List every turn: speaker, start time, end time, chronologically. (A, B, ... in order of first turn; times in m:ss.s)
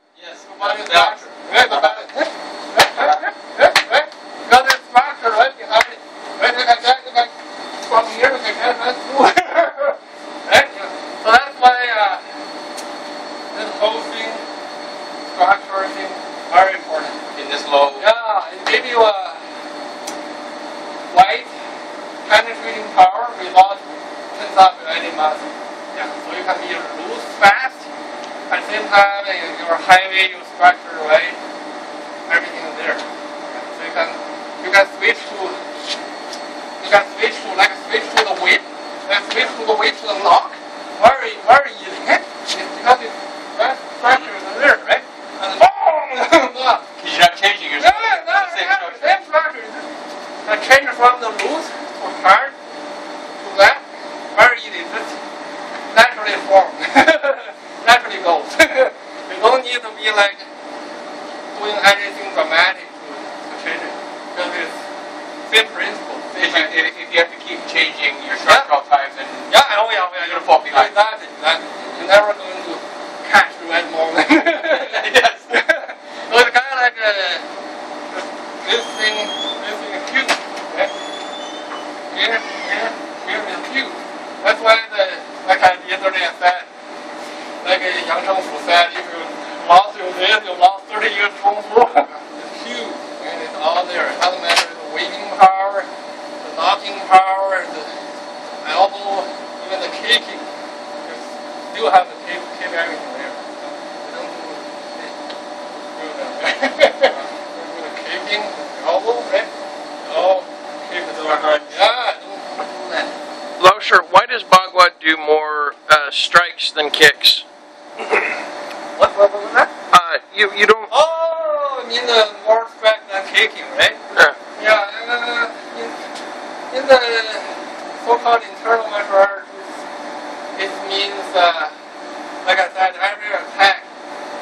0:00.2-0:02.1 A
0:00.6-0:12.2 B
0:02.9-0:03.3 A
0:13.5-0:14.4 B
0:15.3-0:17.2 B
0:17.3-0:18.1 A
0:18.0-0:19.4 B
0:21.1-0:21.5 B
0:22.2-0:27.9 B
0:28.5-0:31.4 B
0:32.3-0:35.6 B
0:36.8-0:46.8 B
0:47.0-0:49.2 A
0:47.8-0:49.9 B
0:50.4-0:52.6 B
0:53.4-0:55.2 B
0:55.9-1:00.5 B
1:01.5-1:04.8 B
1:05.5-1:06.8 B
1:06.4-1:11.0 A
1:08.4-1:08.7 B
1:09.5-1:17.4 B
1:14.6-1:15.6 A
1:18.1-1:20.9 B
1:22.1-1:26.7 B
1:27.6-1:35.9 B
1:36.4-1:38.0 B
1:38.6-1:40.5 B
1:41.0-1:45.2 B
1:45.8-1:49.5 B
1:50.0-1:53.1 B
1:51.1-1:51.8 A
1:53.6-1:57.4 C
1:58.0-1:58.3 C
1:59.0-1:59.7 B
1:59.9-2:00.9 C
2:00.9-2:04.0 B
2:04.6-2:06.0 B
2:06.7-2:09.7 B
2:10.6-2:11.7 B
2:12.4-2:13.9 B